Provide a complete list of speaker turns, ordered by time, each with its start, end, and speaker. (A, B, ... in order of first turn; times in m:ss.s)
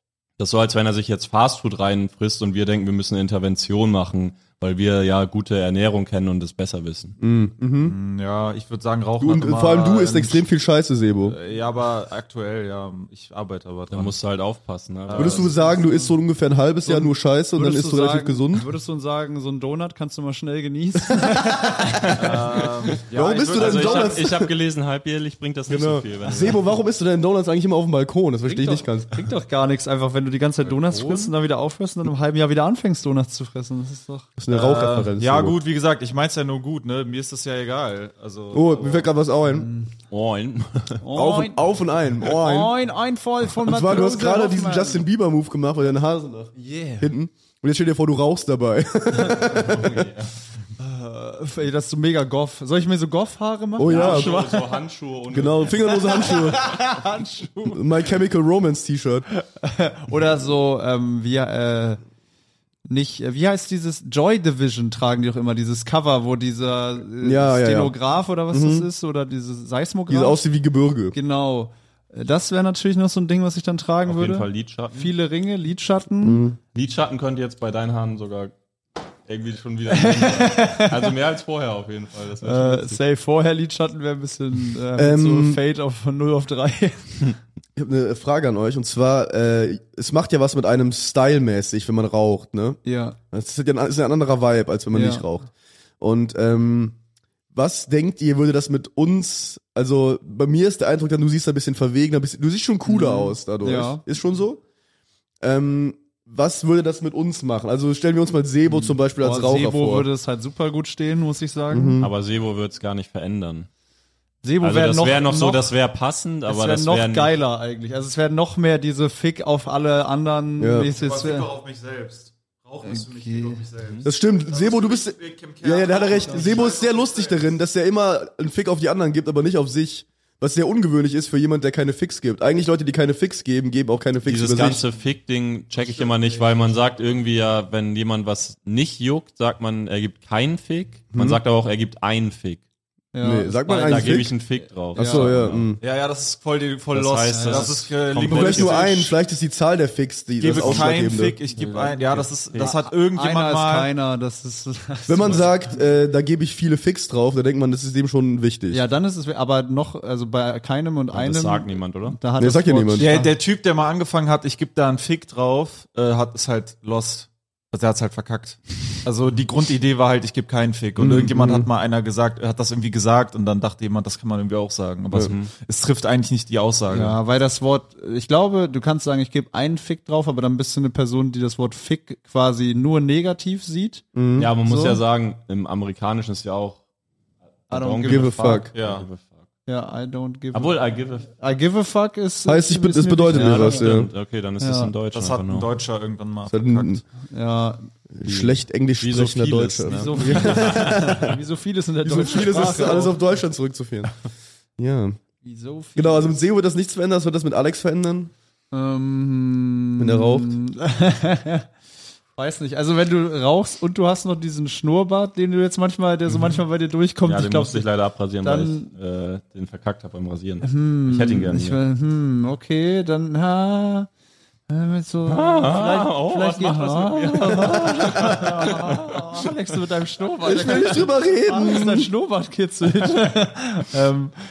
0:00.4-0:07.2 A
0:07.2-0:08.0 B
0:07.9-0:10.4 C
0:09.2-0:11.4 B
0:11.2-0:14.2 C
0:13.9-0:15.5 A
0:15.1-0:15.5 C
0:15.2-0:18.7 B
0:15.5-0:16.2 D
0:16.8-0:22.0 D
0:22.1-0:24.3 C
0:23.1-0:24.5 B
0:23.5-0:26.7 A
0:25.7-0:29.2 B
0:28.5-0:34.3 D
0:31.0-0:31.3 A
0:34.4-0:35.6 B
0:34.5-0:39.1 C
0:38.5-0:39.7 B
0:39.5-0:39.9 D
0:40.1-0:41.0 A
0:41.0-0:41.7 D
0:41.1-0:42.7 B
0:42.2-0:45.0 D
0:43.6-0:50.0 B
0:46.6-0:47.1 D
0:49.5-0:50.3 A
0:50.8-0:54.7 D
0:53.8-0:54.4 B
0:53.8-0:55.8 A
0:55.3-0:56.8 B
0:56.0-0:57.8 D
0:57.6-0:59.3 B
0:59.3-1:02.0 D
1:02.9-1:10.4 D
1:07.2-1:08.0 B
1:08.5-1:08.9 B
1:10.1-1:11.2 B
1:11.1-1:16.4 D
1:14.1-1:15.1 A
1:16.2-1:16.6 B
1:16.8-1:18.5 A
1:19.3-1:23.0 A
1:19.9-1:21.1 D
1:22.4-1:27.3 D
1:25.0-1:25.6 B
1:27.8-1:32.8 B
1:32.8-1:33.2 D
1:33.3-1:35.5 B
1:34.9-1:35.2 D
1:36.0-1:37.0 B
1:37.5-1:44.6 B
1:42.9-1:44.0 D
1:45.4-1:50.1 B
1:48.7-1:52.0 D
1:51.7-1:52.1 B
1:52.0-1:53.7 A
1:54.4-1:55.7 D
1:54.6-1:57.4 A
1:56.5-2:01.5 D
2:00.6-2:00.9 B
2:00.9-2:07.5 C
2:02.8-2:03.6 D
2:04.0-2:14.8 B
2:14.2-2:22.6 A
2:15.8-2:16.1 D
2:21.1-2:21.4 B
2:23.1-2:24.2 D
2:23.2-2:24.4 B
2:23.7-2:25.7 A
2:24.9-2:25.8 B
2:25.0-2:25.3 D
2:25.8-2:29.2 C
2:26.9-2:29.0 A
2:27.3-2:27.8 D
2:28.3-2:31.4 B
2:30.4-2:33.9 C
2:30.5-2:32.7 A
2:32.6-2:35.7 D
2:35.1-2:38.8 B
2:38.7-2:43.3 D
2:41.1-2:42.2 A
2:42.4-2:43.1 B
2:43.0-2:57.2 C
2:51.0-2:51.7 B
2:55.2-2:55.5 A
2:56.9-3:04.0 D
3:04.1-3:04.5 B
3:04.4-3:06.8 A
3:04.6-3:05.0 D
3:07.7-3:09.4 A
3:07.7-3:08.7 D
3:08.0-3:08.7 B
3:08.8-3:09.1 C
3:09.7-3:13.9 D
3:10.5-3:11.3 A
3:12.4-3:14.1 B
3:13.3-3:15.7 A
3:14.6-3:14.9 D
3:15.1-3:17.0 C
3:16.5-3:17.0 B
3:17.3-3:17.9 D
3:18.1-3:21.3 B
3:18.3-3:21.3 A
3:19.8-3:23.2 D
3:22.0-3:24.1 B
3:24.8-3:25.2 B
3:25.4-3:26.4 D
3:26.0-3:28.3 B
3:28.7-3:31.7 D
3:30.0-3:30.6 B
3:32.4-3:37.9 D
3:37.3-3:41.8 A
3:38.4-3:38.9 D
3:40.6-3:44.1 D
3:44.7-3:54.3 D
3:45.3-3:49.5 A
3:50.4-3:52.1 B